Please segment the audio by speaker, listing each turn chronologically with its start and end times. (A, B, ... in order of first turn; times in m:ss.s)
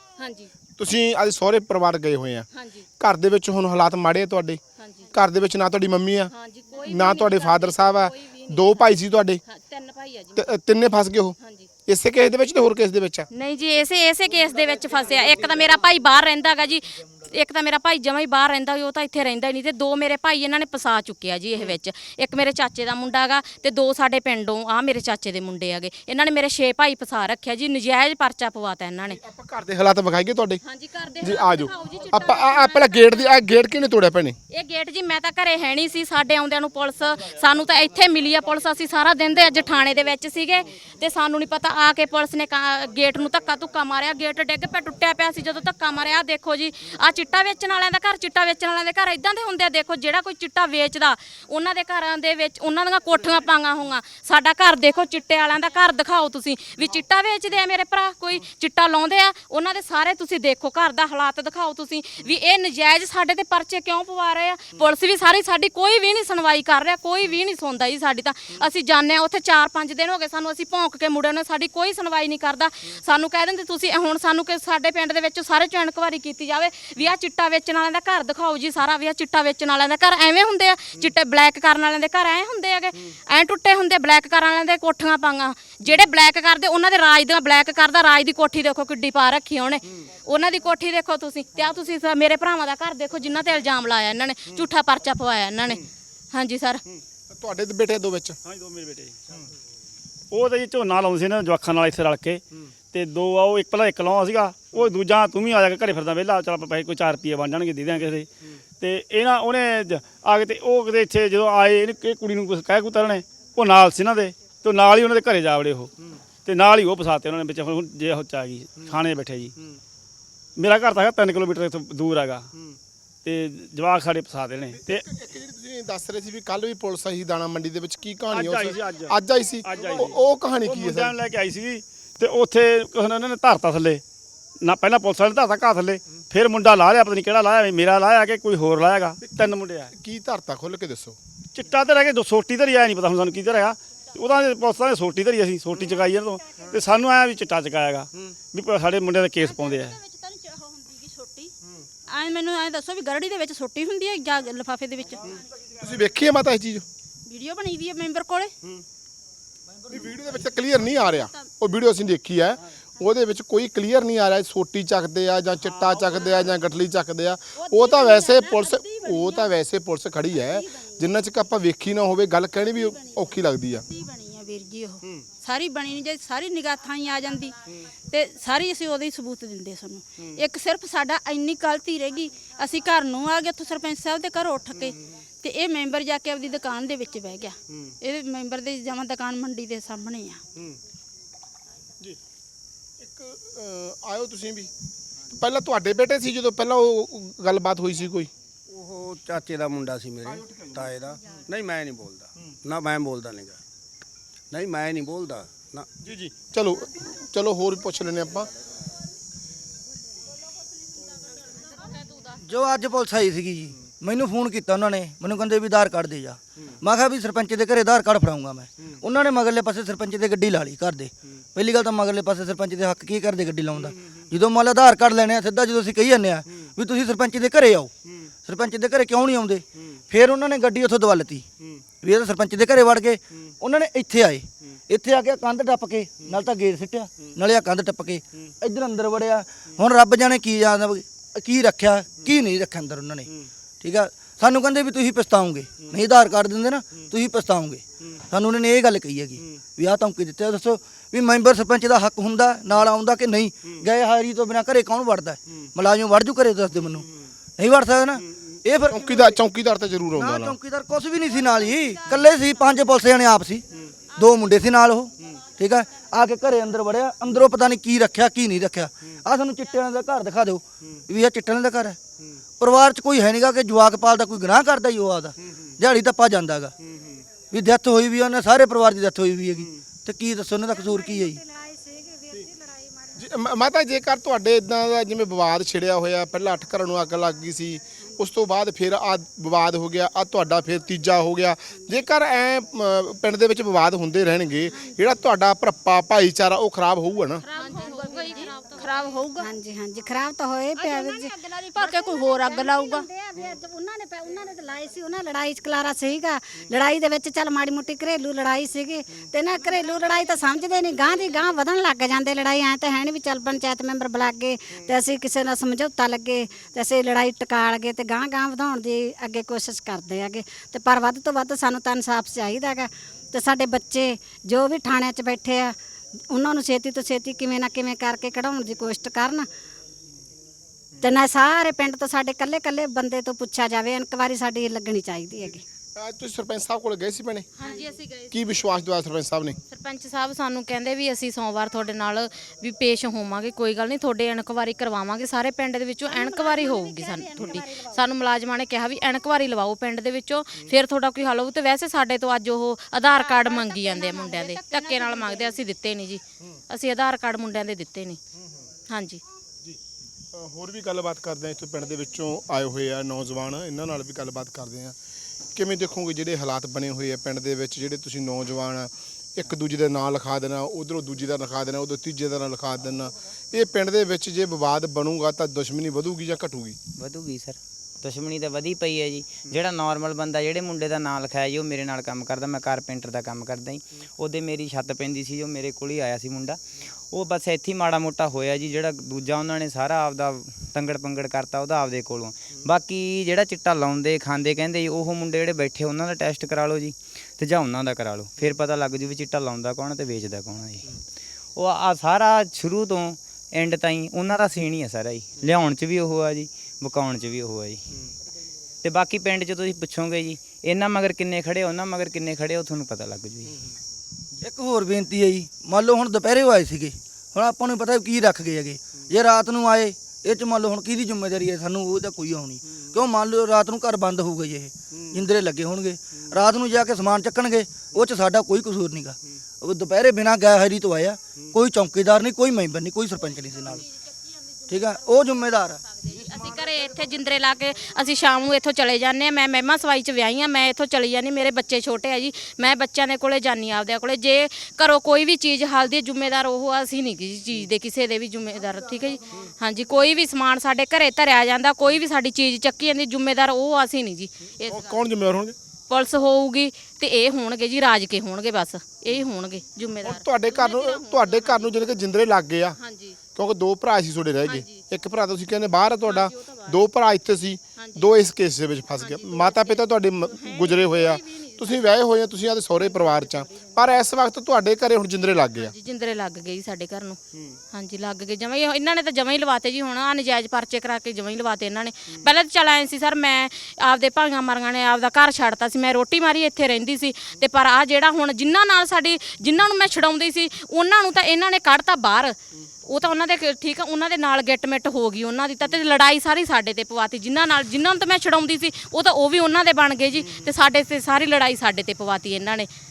0:00.2-0:00.5 A
0:00.8-0:02.5 B
0:02.5-0:02.8 A
0:03.0-0:04.6 B
0:04.8-0:05.1 A
0:05.1-0:06.3 B
0:06.3-0:08.8 A
0:06.8-0:09.4 B
0:09.5-0:10.4 A
0:10.4-0:13.3 B
0:11.4-0:11.7 A
0:13.3-0:29.2 A
0:29.1-0:30.6 B
0:30.6-0:33.3 A
0:31.2-0:34.4 B
0:34.5-1:36.8 A
1:37.3-1:38.4 B
1:38.4-1:39.2 C
1:40.3-1:48.3 C
1:48.8-1:55.9 C
1:56.4-1:59.6 C
2:00.6-2:02.5 C
2:03.2-2:05.0 C
2:04.7-2:11.2 B
2:08.3-2:14.0 C
2:14.6-2:19.9 C
2:20.0-2:21.2 B
2:21.5-2:30.0 C
2:29.4-2:31.5 D
2:32.1-2:35.3 D
2:35.8-2:36.8 B
2:37.3-2:38.5 D
2:39.9-2:53.8 B
2:45.8-2:46.2 C
2:47.6-2:49.5 D
2:50.4-2:50.7 D
2:53.9-2:57.5 D
2:58.1-3:10.4 D
3:13.0-3:14.7 B
3:15.3-3:18.3 B
3:18.8-3:23.6 E
3:24.5-3:25.9 E
3:26.2-3:28.5 B
3:32.4-3:47.9 F
3:48.5-3:51.4 F
3:52.0-4:03.3 F
4:03.8-4:17.1 F
4:17.6-4:19.4 F
4:18.9-4:20.6 B
4:20.2-4:23.6 F
4:24.2-4:32.0 F
4:32.6-4:36.7 F
4:37.5-4:41.4 F
4:40.7-4:43.3 G
4:43.2-4:57.4 B
4:57.4-4:59.2 A
4:57.7-4:59.4 D
4:59.4-5:25.8 G
5:00.8-5:03.0 D
5:26.3-5:29.5 G
5:31.0-5:35.6 G
5:36.0-5:37.5 B
5:37.6-5:38.4 A
5:38.3-5:39.6 B
5:39.7-5:58.2 A
5:46.1-5:48.0 G
5:53.4-5:55.5 D
5:58.9-5:59.2 A
6:00.3-6:05.0 B
6:05.6-6:16.8 B
6:17.0-6:26.6 H
6:27.1-6:41.0 H
6:41.6-6:47.8 H
6:48.8-6:53.6 H
6:54.4-7:13.8 F
7:14.7-7:15.8 F
7:15.9-7:35.1 A
7:34.7-7:35.6 B
7:35.9-7:41.7 A
7:40.0-7:42.8 B
7:42.8-7:43.2 A
7:43.4-7:55.7 B
7:44.5-7:44.9 A
7:46.0-7:46.8 A
7:47.8-7:48.1 A
7:49.0-7:51.9 A
7:52.8-7:53.8 A
7:55.6-7:57.2 A
7:57.7-8:22.7 A